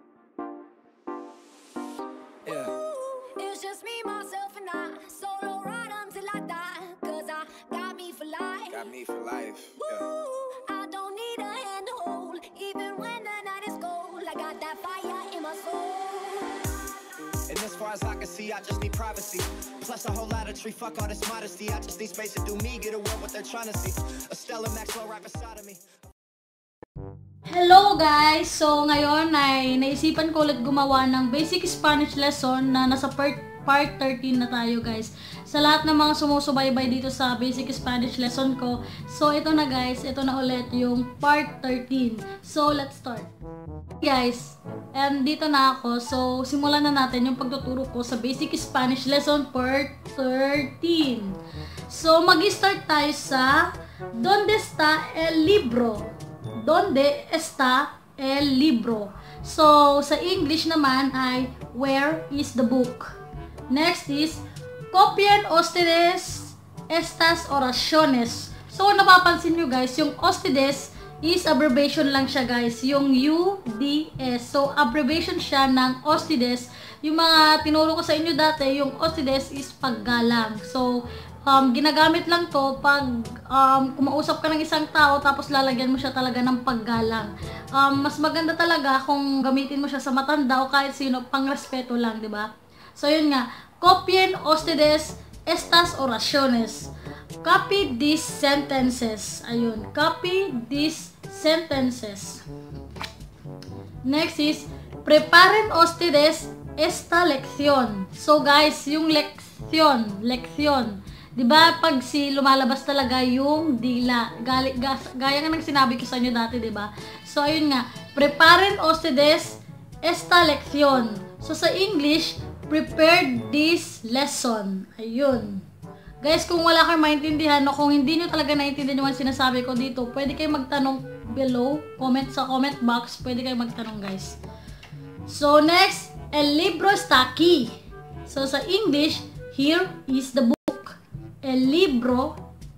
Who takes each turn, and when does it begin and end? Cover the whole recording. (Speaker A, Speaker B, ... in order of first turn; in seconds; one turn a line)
Speaker A: 2.5-2.7
Speaker B: 2.5-8.9
Speaker A: 8.7-10.1
Speaker B: 9.8-16.7
Speaker A: 17.5-25.8
Speaker C: 27.5-43.3
Speaker C: 44.0-63.2
Speaker C: 63.7-102.4
Speaker C: 104.0-125.7
Speaker C: 126.2-134.4
Speaker C: 135.3-142.4